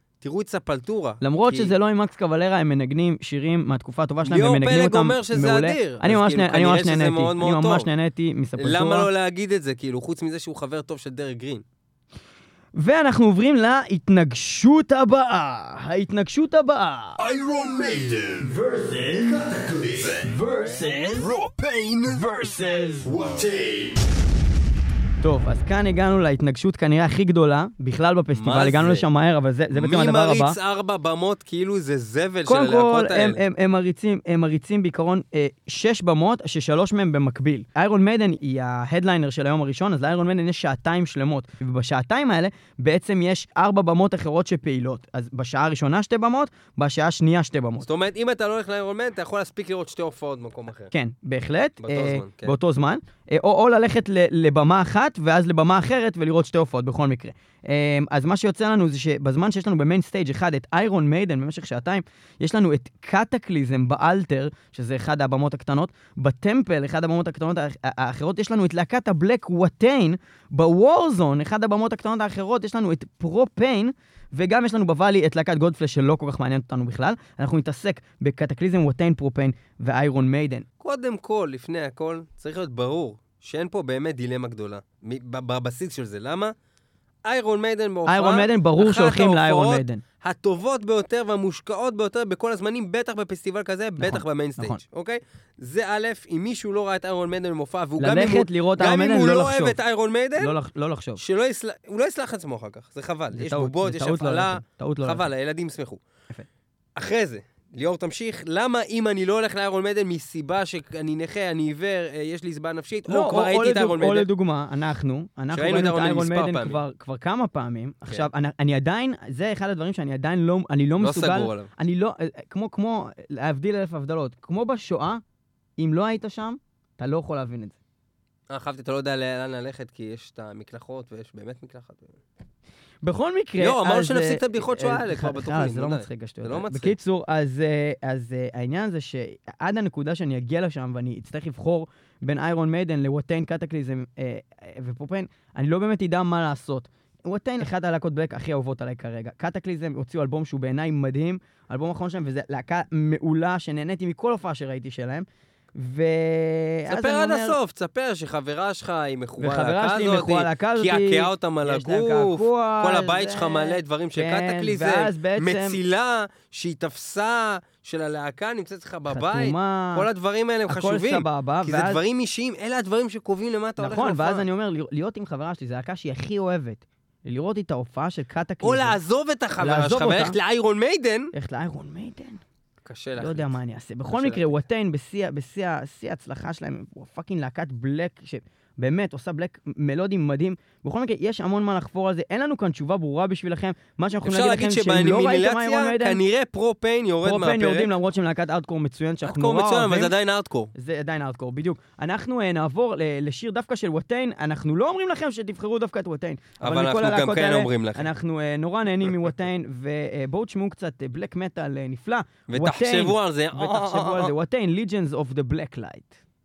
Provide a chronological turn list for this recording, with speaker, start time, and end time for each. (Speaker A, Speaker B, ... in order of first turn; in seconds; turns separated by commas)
Speaker A: 0.2-1.7, Speaker B: 1.2-9.1, Speaker A: 4.2-7.9, Speaker A: 8.6-11.6, Speaker B: 12.8-17.2, Speaker C: 17.2-23.9, Speaker B: 25.2-30.6, Speaker A: 28.3-29.1, Speaker A: 29.7-33.4, Speaker B: 32.5-47.9, Speaker A: 47.8-50.9, Speaker B: 50.9-80.7, Speaker A: 51.8-52.5, Speaker A: 80.8-86.5, Speaker A: 87.2-100.5, Speaker B: 88.1-90.0, Speaker B: 94.0-94.8, Speaker B: 98.0-99.8, Speaker B: 100.4-101.2, Speaker A: 101.2-106.0, Speaker B: 103.3-105.2, Speaker A: 107.0-114.3, Speaker B: 113.1-125.2, Speaker A: 115.5-116.8, Speaker A: 121.0-121.7, Speaker B: 125.8-127.8, Speaker A: 128.5-132.2, Speaker B: 133.0-157.6, Speaker A: 133.6-136.9, Speaker A: 156.9-174.4, Speaker B: 159.4-165.8, Speaker B: 169.1-170.1, Speaker B: 170.7-172.0, Speaker B: 173.8-178.9, Speaker A: 178.6-181.3, Speaker B: 179.6-180.3, Speaker B: 181.3-182.4, Speaker A: 182.8-183.6, Speaker B: 183.2-196.2, Speaker A: 184.1-184.6, Speaker A: 194.2-197.9, Speaker B: 197.2-200.1, Speaker A: 199.2-200.7, Speaker B: 200.7-216.2, Speaker A: 206.6-208.1, Speaker A: 212.5-214.3